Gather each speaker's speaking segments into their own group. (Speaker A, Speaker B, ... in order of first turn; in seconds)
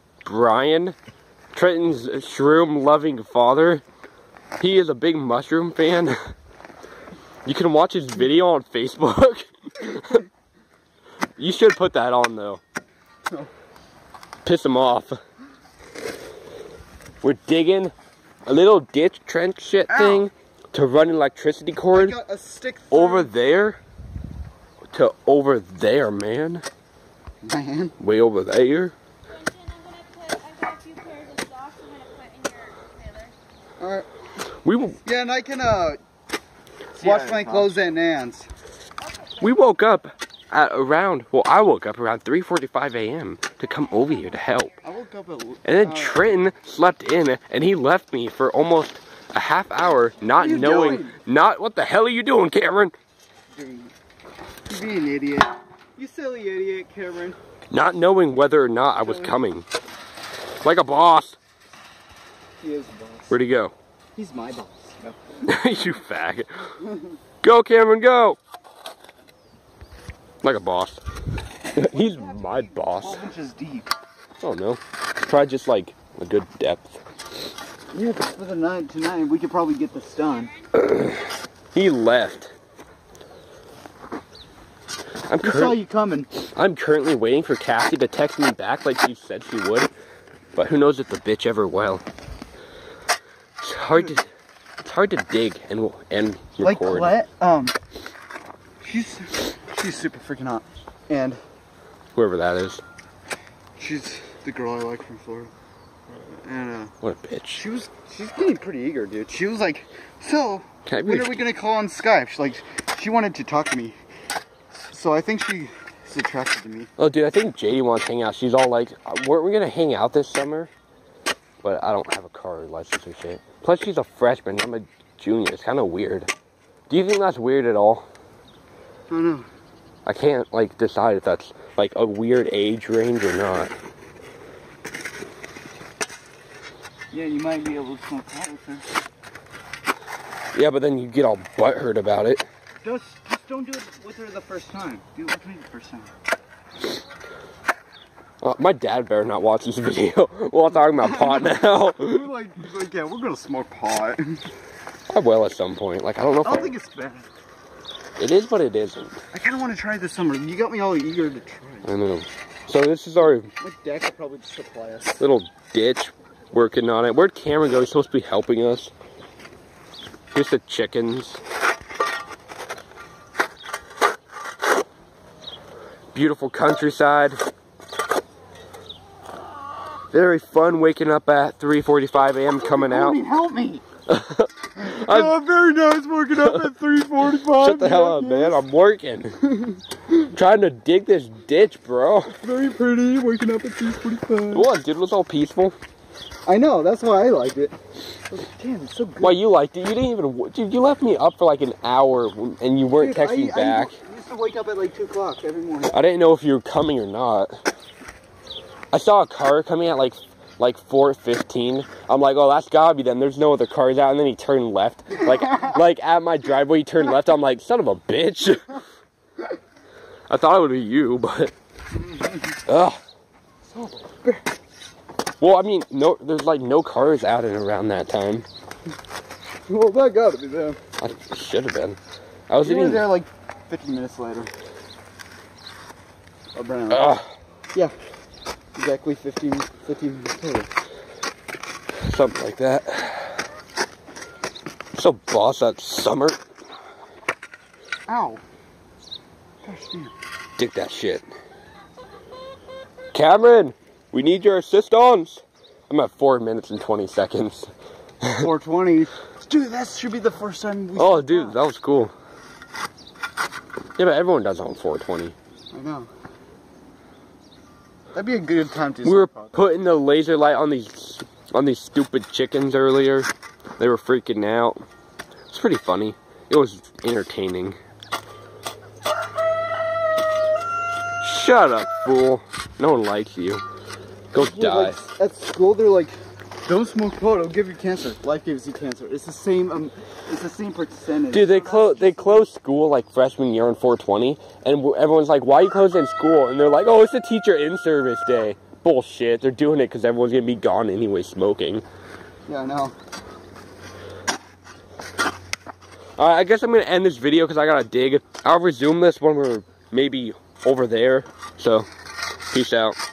Speaker A: 0.2-0.9, 1.5-3.8, 4.6-6.2, 7.4-10.2, 11.4-12.6, 14.4-15.2, 17.2-17.9, 18.4-22.2, 22.9-23.8, 24.9-26.6, 28.0-28.9, 34.6-35.0, 39.4-44.8, 45.6-52.9, 57.7-59.6, 60.6-61.4, 63.3-63.7, 65.5-66.7, 67.4-68.4, 70.4-71.0, 71.7-73.2, 74.4-77.0, 80.7-82.5, 85.3-85.8, 86.4-89.9, 90.5-92.0, 93.6-94.3, 94.8-97.1, 102.1-102.8, 107.0-107.6, 110.9-111.4, 117.0-120.7, 121.6-126.3, 126.9-128.1, 130.1-133.7, 140.5-142.4, 148.4-152.2, 155.1-156.7, 158.2-159.2, 161.8-163.5, 165.2-168.9, 170.3-171.4, 176.1-177.4, 180.1-183.2, 184.1-185.3, 187.5-189.4, 190.3-192.3, 194.5-195.8, 199.2-204.0, 205.9-207.5, 208.9-218.8, 220.3-221.5, 222.7-223.0, 225.4-228.4, 231.0-232.0, 232.5-233.1, 236.9-237.3, 242.0-243.4, 244.9-246.4, 250.6-251.2, 253.1-257.7, 258.2-258.5, 260.9-262.1, 263.9-265.3, 269.0-274.8, 275.5-277.8, 281.2-283.6, 284.3-285.0, 291.3-301.8, 306.2-311.9, 312.5-313.0
Speaker B: 19.9-20.3, 21.9-23.3, 27.4-27.9, 33.8-34.1, 35.0-36.0, 36.9-38.5, 44.8-46.4, 50.3-51.2, 53.5-53.9, 54.7-57.4, 59.0-59.4, 62.6-63.4, 64.2-65.3, 66.8-67.1, 71.8-73.9, 77.9-80.5, 85.4-86.3, 96.6-97.7, 98.8-101.4, 103.8-105.5, 106.3-106.9, 107.5-114.0, 114.9-116.9, 129.1-129.5, 137.1-138.9, 142.8-146.1, 150.9-154.4, 156.4-157.3, 159.3-161.9, 163.5-165.2, 182.6-183.8, 184.8-188.6, 192.3-194.7, 196.4-199.4, 202.9-206.0, 223.7-224.5, 229.7-230.8, 232.6-234.5, 236.5-237.2, 238.7-240.7, 248.1-248.4, 249.6-250.1, 258.4-261.6, 265.7-266.1, 268.1-269.6, 284.3-292.5, 302.5-302.9
Speaker C: 29.3-33.3, 39.1-39.4